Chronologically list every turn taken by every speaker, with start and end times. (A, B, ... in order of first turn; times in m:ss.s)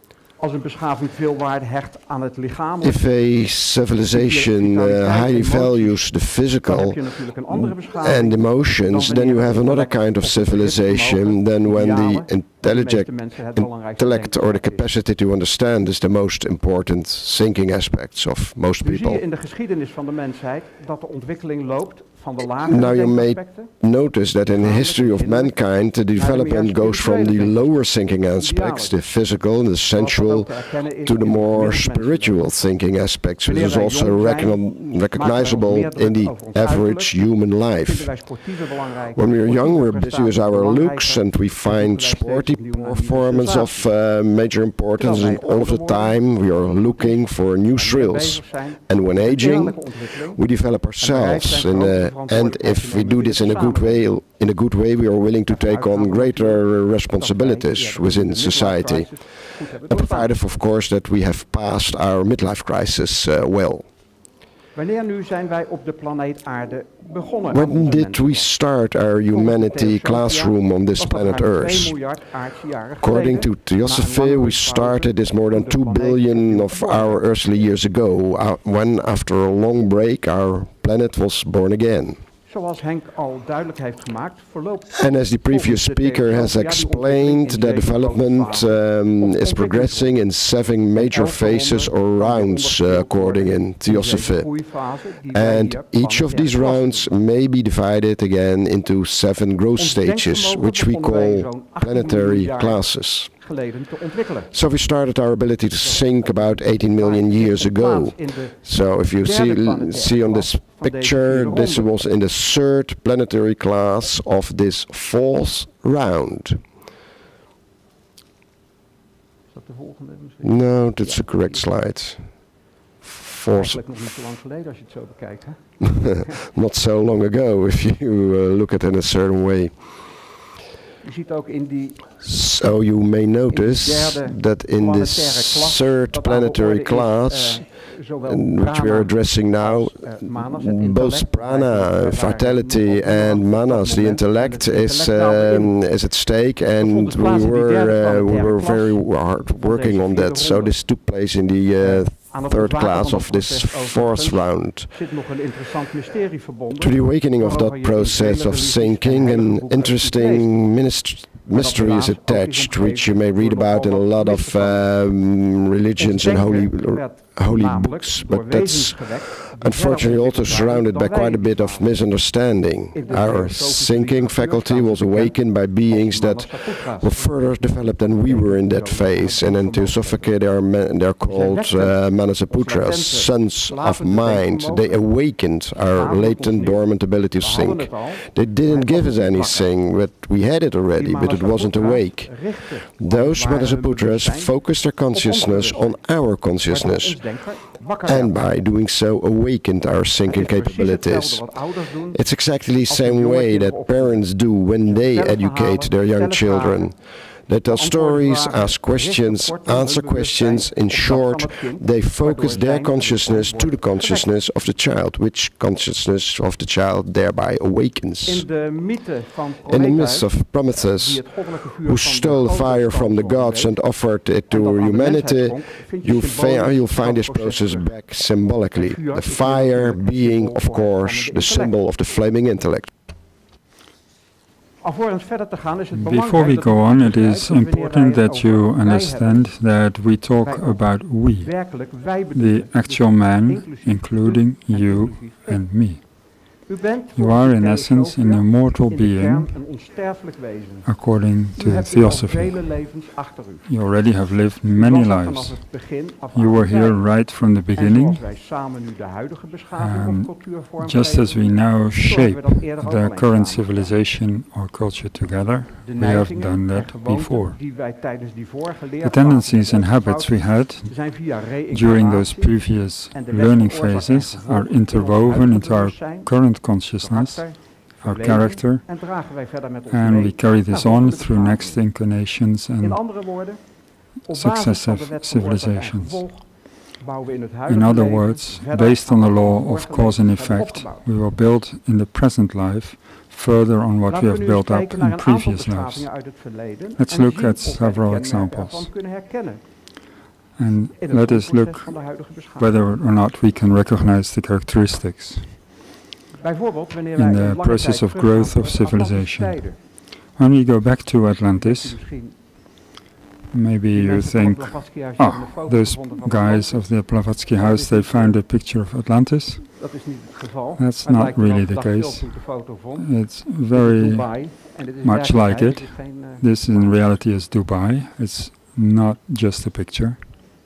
0:00.4-0:03.0 A
0:02.8-0:19.2 B
0:04.1-0:06.0 A
0:06.6-0:14.8 A
0:18.8-0:23.7 A
0:22.6-1:03.9 B
0:24.5-0:25.6 A
0:26.2-0:27.7 A
0:28.4-0:28.9 A
0:30.0-0:32.4 A
0:33.5-0:43.9 A
0:45.0-0:47.2 A
0:47.8-0:50.4 A
0:51.0-0:54.0 A
0:55.5-0:56.6 A
0:57.2-1:00.3 A
1:04.8-1:08.5 A
1:07.5-1:12.0 B
1:09.3-1:17.2 A
1:13.0-1:22.2 B
1:22.5-1:30.2 A
1:24.9-1:43.3 B
1:31.0-1:37.1 A
1:39.8-1:44.5 A
1:44.5-1:56.6 B
1:45.8-1:51.9 A
1:59.5-2:01.6 A
2:00.4-2:02.3 B
2:03.0-2:03.8 B
2:03.5-2:06.4 A
2:05.8-2:10.0 B
2:11.0-2:12.1 A
2:12.2-2:34.9 B
2:13.5-2:25.9 A
2:26.8-2:30.8 A
2:31.8-2:40.5 A
2:36.8-3:17.4 B
2:41.5-2:45.1 A
2:46.0-2:51.9 A
2:52.9-3:00.3 A
3:01.2-3:05.0 A
3:05.9-3:06.8 A
3:07.4-3:09.7 A
3:11.0-3:18.3 A
3:18.0-3:38.5 B
3:20.3-3:22.2 A
3:22.9-3:24.3 A
3:24.8-3:27.0 A
3:27.7-3:34.3 A
3:38.2-3:43.7 A
3:39.7-3:52.9 B
3:44.5-3:47.9 A
3:48.8-3:51.7 A
3:54.8-3:59.5 A
3:55.9-4:06.3 C
4:00.4-4:05.6 A
4:06.7-4:11.0 A
4:07.2-4:09.6 C
4:10.8-4:12.7 C
4:11.5-4:13.7 A
4:13.7-4:15.7 C
4:14.7-4:23.9 A
4:16.3-4:18.2 C
4:19.8-4:27.6 C
4:25.8-4:41.8 A
4:29.0-4:39.0 C
4:39.9-4:43.0 C
4:42.8-4:43.6 A
4:44.3-4:51.0 A
4:44.3-4:46.2 C
4:47.7-4:56.1 C
4:54.1-4:59.6 A
4:57.0-4:58.9 C
5:00.6-5:05.6 C
5:01.0-5:02.9 A
5:06.4-5:09.8 A
5:07.2-5:09.7 C
5:10.4-5:12.0 C
5:11.6-5:12.4 A
5:13.5-5:19.7 C
5:13.9-5:18.4 A
5:19.8-5:27.0 A
5:20.8-5:22.4 C
5:23.0-5:30.3 C